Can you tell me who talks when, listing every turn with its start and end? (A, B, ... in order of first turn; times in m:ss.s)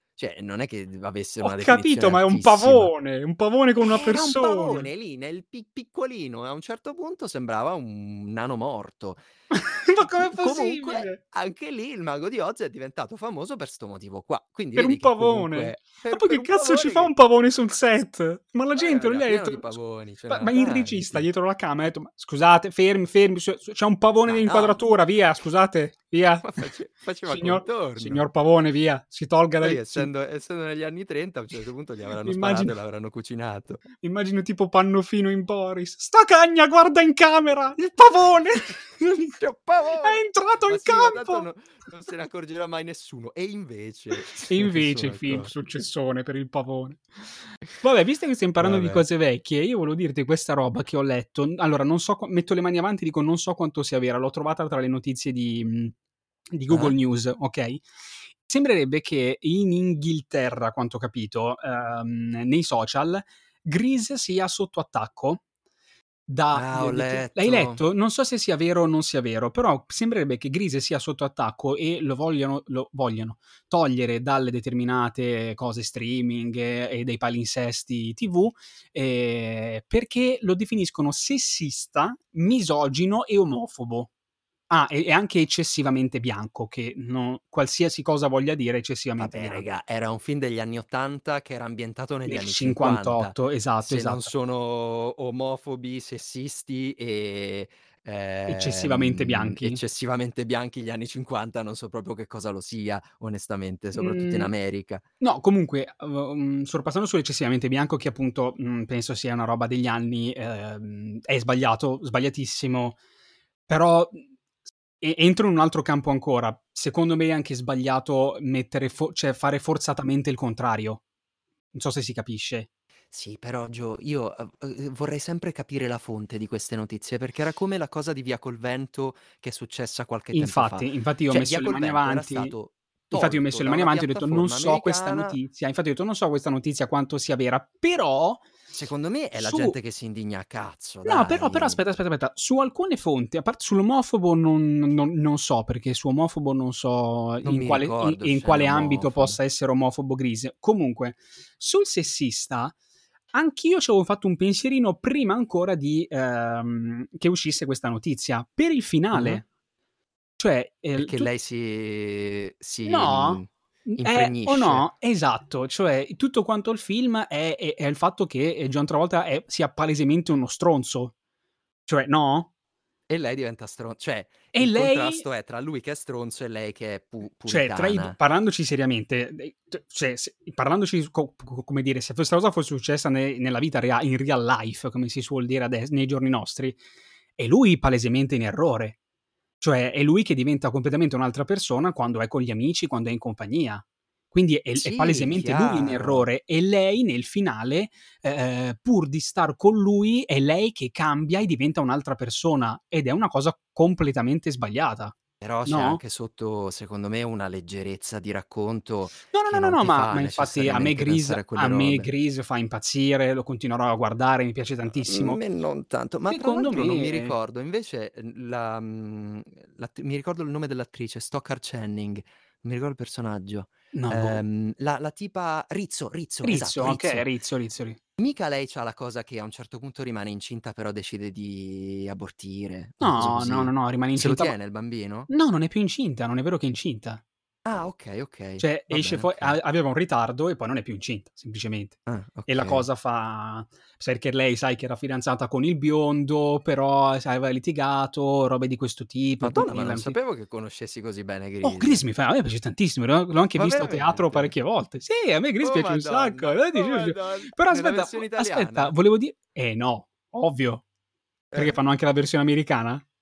0:00.2-0:02.9 A
0:01.4-0:04.9 B
0:03.8-0:09.2 A
0:09.5-0:11.2 B
0:10.0-0:17.1 A
0:14.8-0:19.8 B
0:18.8-0:21.3 A
0:20.3-0:26.7 B
0:24.3-0:24.8 A
0:26.4-0:28.2 A
0:27.3-0:30.1 B
0:29.6-0:33.8 A
0:32.2-0:32.8 B
0:34.0-0:39.4 B
0:39.4-0:45.5 A
0:40.0-0:41.5 B
0:44.1-0:55.9 B
0:48.6-0:49.0 A
0:56.5-0:57.8 B
0:56.7-0:57.0 A
0:58.4-1:05.4 B
1:06.3-1:24.1 B
1:06.5-1:07.8 A
1:24.7-1:29.6 B
1:29.2-1:45.0 A
1:32.3-1:34.3 B
1:38.5-1:39.8 B
1:44.0-1:44.5 B
1:45.2-1:53.0 B
1:53.7-1:54.2 B
1:55.0-2:01.0 B
2:01.7-2:02.7 B
2:03.1-2:15.4 A
2:10.3-2:12.6 B
2:13.1-2:18.5 B
2:18.7-2:21.8 A
2:19.4-2:19.8 B
2:21.0-2:32.8 B
2:27.4-2:29.4 A
2:33.3-2:39.4 B
2:39.1-2:39.4 A
2:40.4-2:41.3 B
2:41.0-2:44.9 A
2:42.8-2:51.1 B
2:51.9-2:52.5 B
2:53.1-2:58.2 A
2:54.5-2:55.2 B
2:57.5-3:06.8 B
3:07.4-3:09.0 B
3:09.6-3:26.0 B
3:14.8-3:16.3 A
3:25.4-3:32.1 A
3:29.3-3:35.4 B
3:35.0-3:47.3 A
3:36.3-3:37.3 B
3:43.9-3:44.4 B
3:46.4-3:48.0 B
3:48.2-3:55.3 A
3:53.0-3:54.6 B
3:55.3-3:57.2 B
3:57.6-3:59.6 A
3:58.6-4:10.2 B
4:02.1-4:02.9 A
4:09.4-4:12.0 A
4:11.6-4:20.8 B
4:13.6-4:14.5 A
4:15.6-4:18.9 A
4:21.5-4:21.8 A
4:21.5-4:23.0 B